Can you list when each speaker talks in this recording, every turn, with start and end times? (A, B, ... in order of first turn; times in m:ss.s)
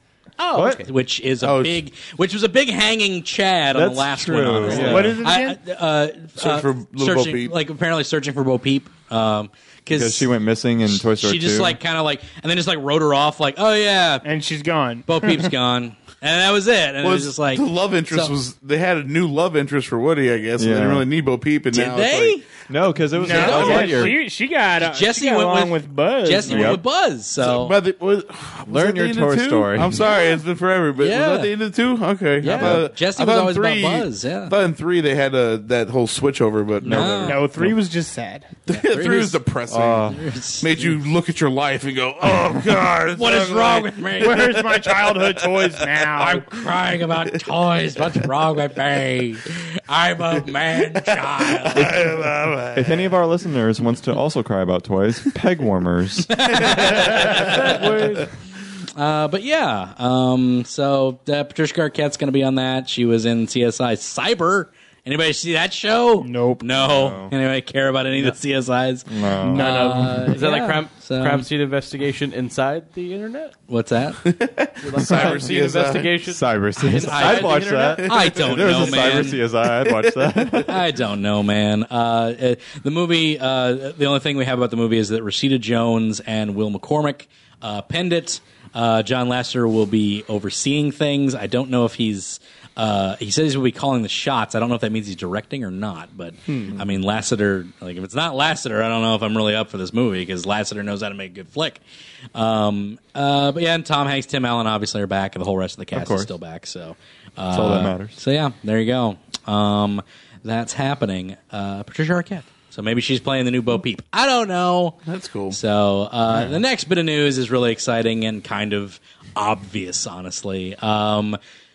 0:00.4-0:00.9 A
0:00.5-0:00.8 B
0:00.8-0:10.3 C
0:01.4-0:01.8 D
0:03.7-0:05.2 B
0:04.7-0:05.6 E
0:04.7-0:05.0 A
0:06.4-0:07.5 D
0:09.9-0:11.8 B
0:11.0-0:14.2 C
0:14.2-0:15.5 E
0:15.1-0:18.3 C
0:17.0-0:22.4 D
0:20.6-0:21.0 B
0:21.7-0:22.4 C
0:22.7-0:24.1 B
0:23.2-0:26.8 E
0:23.3-0:24.1 A
0:23.3-0:24.1 C
0:24.9-0:27.8 C
0:26.5-0:26.8 B
0:27.4-0:37.2 D
0:28.7-0:30.0 B
0:31.0-0:31.5 C
0:32.4-0:34.5 C
0:32.4-0:32.8 B
0:36.8-0:37.4 C
0:36.8-0:37.8 B
0:37.2-0:38.5 E
0:38.7-0:46.0 D
0:38.7-0:39.4 C
0:39.7-0:40.2 B
0:40.1-0:40.9 C
0:43.1-0:44.7 C
0:44.2-0:46.4 E
0:46.2-0:52.0 C
0:51.4-0:53.1 D
0:52.7-0:57.1 B
0:56.3-0:58.2 C
0:56.6-0:58.2 D
0:57.6-0:58.2 A
0:59.0-1:11.5 C
1:06.2-1:06.6 E
1:06.7-1:07.3 B
1:09.1-1:10.1 B
1:09.4-1:10.7 E
1:10.3-1:13.5 A
1:13.7-1:14.2 C
1:14.2-1:16.1 D
1:14.8-1:18.1 A
1:15.0-1:15.4 B
1:16.2-1:20.8 B
1:16.8-1:19.4 C
1:18.0-1:20.7 D
1:20.6-1:41.8 C
1:36.5-1:36.8 D
1:42.3-1:55.0 C
1:45.9-1:46.3 B
1:47.5-1:48.2 B
1:55.0-1:55.6 D
1:55.5-2:01.4 C
1:56.3-1:56.6 B